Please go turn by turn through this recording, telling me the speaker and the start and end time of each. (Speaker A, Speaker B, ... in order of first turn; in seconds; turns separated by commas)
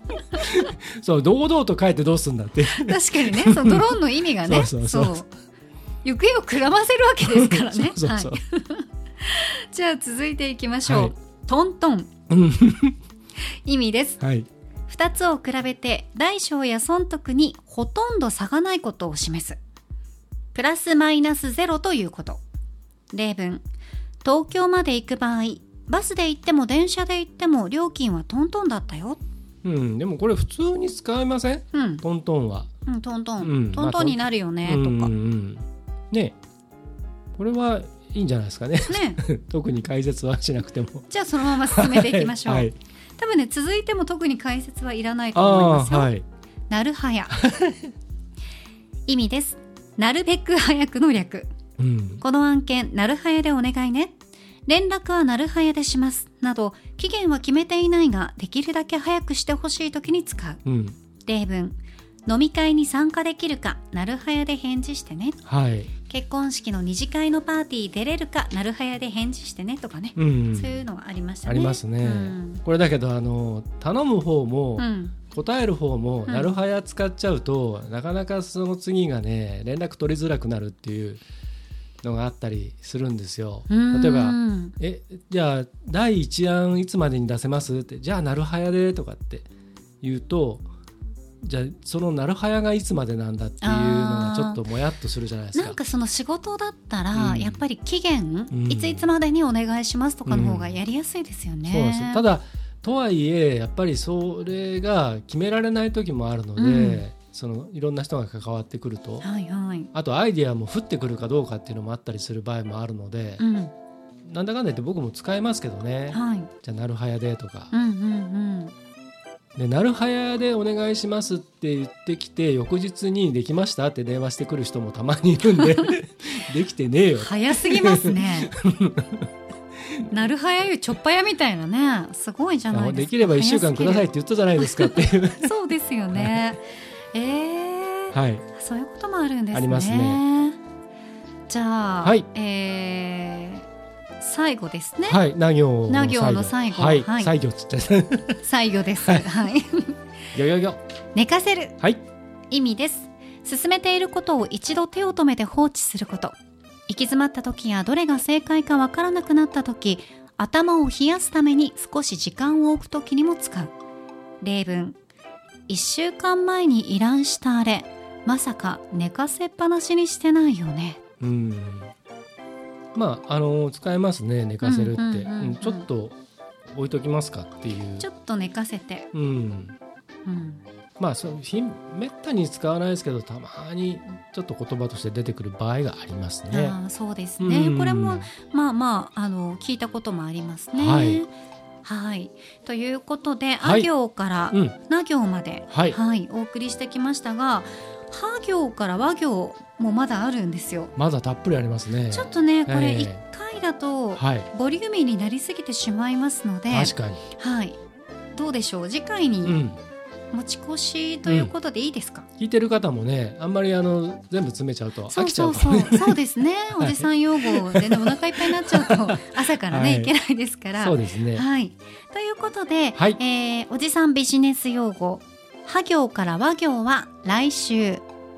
Speaker A: 0.3-5.2, Speaker B: 2.7-5.3, Speaker B: 6.0-12.1, Speaker A: 7.2-8.4, Speaker A: 10.8-11.1, Speaker A: 12.3-13.0, Speaker B: 13.6-14.2, Speaker A: 14.2-14.5, Speaker B: 14.9-19.6, Speaker B: 20.5-22.4, Speaker B: 23.1-23.6, Speaker B: 24.2-29.2, Speaker A: 29.6-32.7, Speaker B: 31.7-32.0, Speaker B: 32.9-35.1, Speaker A: 33.4-36.4, Speaker A: 37.3-42.8, Speaker B: 38.9-39.2, Speaker B: 41.1-46.1, Speaker A: 45.3-46.2, Speaker B: 46.7-47.4, Speaker A: 47.4-47.9, Speaker B: 49.1-51.5, Speaker A: 51.8-52.2, Speaker B: 52.2-54.1, Speaker B: 54.7-60.6, Speaker A: 60.6-61.0, Speaker B: 61.2-65.4, Speaker A: 65.5-65.9, Speaker B: 66.1-72.6, Speaker A: 70.2-70.8, Speaker A: 71.5-81.2, Speaker B: 74.8-75.2, Speaker A: 82.0-89.5, Speaker B: 83.7-84.8, Speaker A: 90.0-90.7, Speaker A: 91.4-95.8, Speaker B: 93.6-94.6, Speaker B: 95.5-102.2, Speaker A: 97.1-97.6, Speaker A: 98.5-99.0, Speaker A: 100.3-100.8, Speaker A: 101.7-109.2, Speaker B: 106.6-107.0, Speaker B: 109.2-109.9, Speaker A: 109.9-113.4, Speaker B: 113.4-113.7, Speaker A: 114.2-117.7, Speaker B: 116.1-116.5, Speaker B: 117.7-118.7, Speaker A: 119.5-129.3, Speaker B: 127.2-128.5, Speaker B: 130.1-140.6, Speaker A: 132.7-135.5, Speaker A: 136.1-136.4, Speaker A: 138.1-138.4, Speaker A: 139.5-140.2, Speaker B: 141.5-143.6, Speaker B: 144.2-145.2, Speaker A: 145.1-148.4, Speaker B: 145.9-147.3, Speaker B: 148.4-149.9, Speaker A: 150.3-150.8, Speaker B: 151.1-151.8, Speaker B: 152.5-156.3, Speaker B: 156.9-163.7, Speaker B: 164.4-165.0, Speaker B: 165.7-171.0, Speaker A: 171.2-171.9, Speaker A: 172.9-176.2, Speaker B: 174.6-175.8, Speaker A: 176.7-178.1, Speaker B: 178.0-179.1, Speaker A: 179.1-179.8, Speaker B: 180.2-180.6, Speaker A: 181.0-186.8, Speaker B: 186.5-191.3, Speaker A: 187.4-188.3, Speaker A: 190.7-191.2, Speaker B: 191.8-200.9, Speaker A: 193.6-193.9, Speaker A: 195.7-196.0, Speaker A: 200.9-203.2, Speaker B: 202.1-207.8, Speaker A: 204.2-204.5, Speaker A: 206.7-207.2, Speaker B: 208.3-209.6, Speaker A: 209.4-209.8, Speaker B: 210.3-212.2, Speaker A: 211.2-211.5, Speaker A: 212.4-216.2, Speaker B: 215.1-228.0, Speaker A: 216.8-220.1, Speaker A: 220.8-221.4